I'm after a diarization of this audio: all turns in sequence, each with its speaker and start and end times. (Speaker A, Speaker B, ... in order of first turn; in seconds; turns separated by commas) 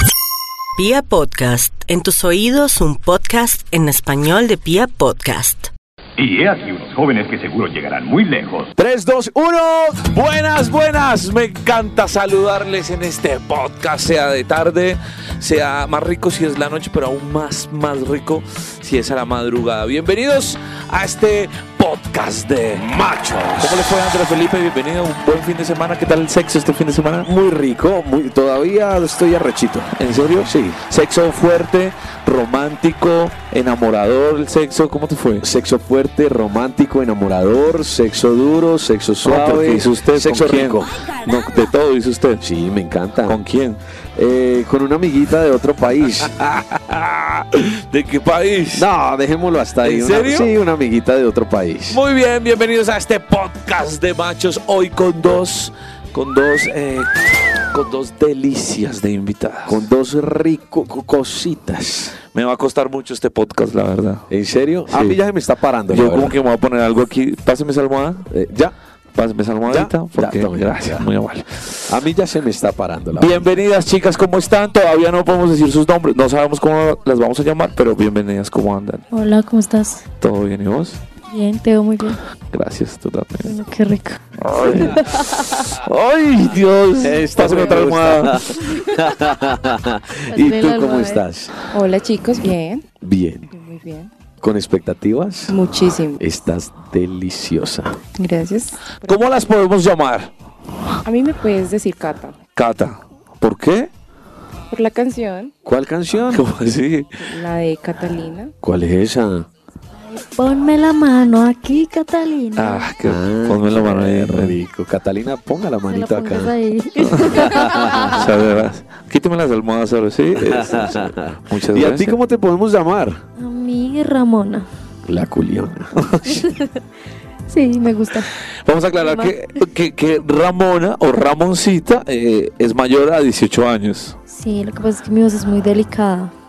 Speaker A: 0.8-5.7, Speaker B: 6.2-8.7, Speaker C: 8.8-10.2, Speaker D: 10.1-22.9, Speaker C: 22.7-23.9, Speaker D: 23.5-27.3, Speaker C: 27.2-29.9, Speaker D: 29.9-35.5, Speaker C: 30.4-30.8, Speaker C: 35.4-41.1, Speaker D: 39.2-42.4, Speaker C: 42.4-43.4, Speaker D: 43.2-43.8, Speaker C: 44.1-46.3, Speaker D: 46.3-48.9, Speaker C: 48.7-52.0, Speaker D: 49.8-50.5, Speaker D: 51.9-59.8, Speaker C: 59.6-62.1, Speaker D: 62.3-64.3, Speaker C: 64.3-66.4, Speaker D: 64.9-65.2, Speaker D: 65.9-68.3, Speaker C: 68.3-68.7, Speaker D: 69.1-72.0, Speaker C: 69.7-71.1, Speaker C: 71.9-73.6, Speaker D: 73.2-79.0, Speaker E: 79.1-80.0, Speaker D: 80.2-81.0, Speaker E: 81.2-82.2, Speaker D: 82.5-83.5, Speaker E: 83.4-84.6, Speaker D: 84.4-88.7, Speaker C: 87.0-91.5, Speaker E: 90.3-91.2, Speaker F: 91.7-92.8, Speaker C: 93.0-93.5, Speaker F: 93.5-94.1, Speaker C: 94.4-98.0, Speaker F: 95.5-96.2, Speaker F: 98.2-99.3, Speaker D: 99.0-100.3, Speaker F: 101.0-102.4, Speaker D: 102.5-103.9, Speaker F: 104.7-105.5, Speaker C: 105.6-106.5, Speaker D: 106.3-107.1, Speaker F: 107.2-108.5, Speaker C: 108.6-109.5, Speaker E: 110.1-112.9, Speaker D: 112.6-114.6, Speaker C: 113.0-116.5, Speaker E: 115.9-118.1, Speaker D: 117.0-122.2, Speaker C: 117.4-118.2, Speaker C: 120.3-123.2, Speaker E: 123.4-124.7, Speaker C: 125.0-126.0, Speaker D: 126.0-126.3, Speaker E: 126.4-126.7, Speaker E: 127.5-128.3, Speaker D: 128.6-134.2, Speaker E: 129.0-129.3, Speaker E: 134.3-136.3